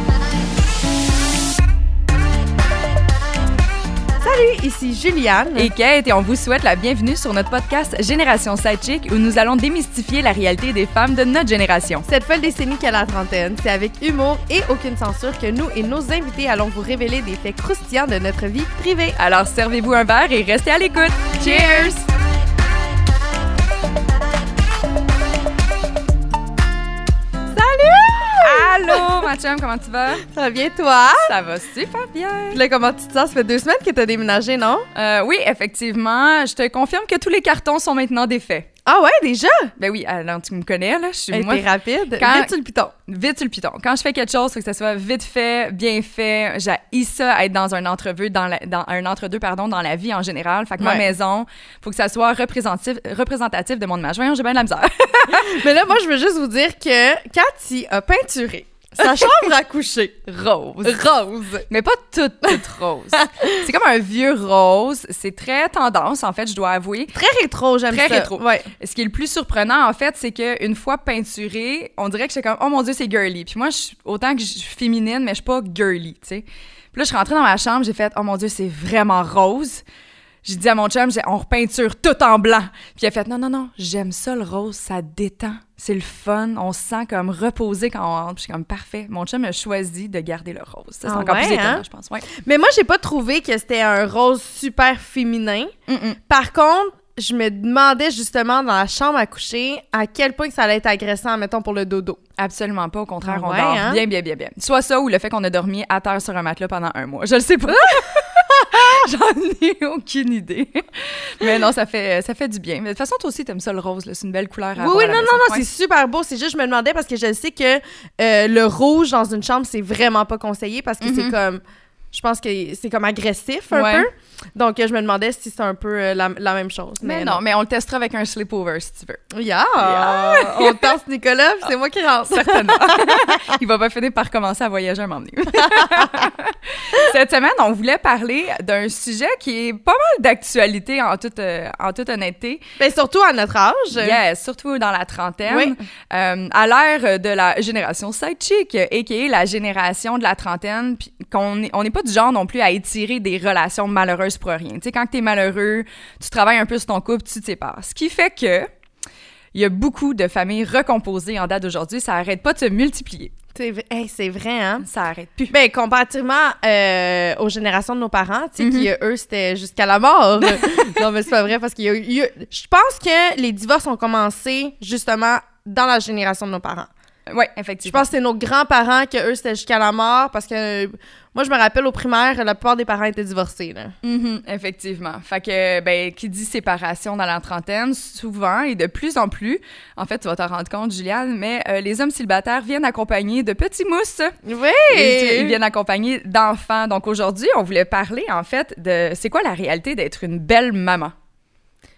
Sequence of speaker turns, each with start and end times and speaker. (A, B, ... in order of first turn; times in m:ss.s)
0:04.2-0:05.7 A
0:05.6-0:12.1 B
0:12.0-0:19.2 A
0:19.2-0:21.8 B
0:21.4-0:22.0 A
0:27.5-0:29.1 A
0:28.4-0:30.3 B
0:30.3-0:31.4 A
0:31.2-0:32.6 B
0:32.5-0:34.9 A
0:35.0-0:38.7 B
0:38.9-0:39.7 A
0:39.8-0:55.6 B
0:41.3-0:42.5 A
0:50.8-0:51.1 A
0:55.4-1:01.7 A
0:59.0-0:59.4 B
1:01.7-1:07.2 B
1:03.2-1:03.6 A
1:07.1-1:08.7 A
1:07.9-1:19.8 B
1:20.4-1:32.3 B
1:31.0-1:35.7 A
1:35.9-1:36.2 B
1:36.3-1:42.2 A
1:42.4-1:55.7 B
1:43.2-1:44.0 A
1:54.8-2:01.6 A
2:01.0-2:01.4 B
2:02.1-2:07.4 A
2:03.7-2:04.1 B
2:07.0-2:09.2 B
2:09.3-2:13.5 A
2:09.8-2:11.0 B
2:12.3-2:22.6 B
2:22.8-2:24.2 A
2:24.0-2:38.7 B
2:25.5-2:25.8 A
2:39.5-2:43.3 B
2:43.6-2:44.8 A
2:44.8-2:45.5 B
2:45.5-2:56.9 A
2:48.6-2:48.9 B
2:57.3-2:58.1 B
2:57.8-3:04.0 A
3:04.0-3:14.4 B
3:14.4-3:15.6 A
3:14.9-3:21.1 B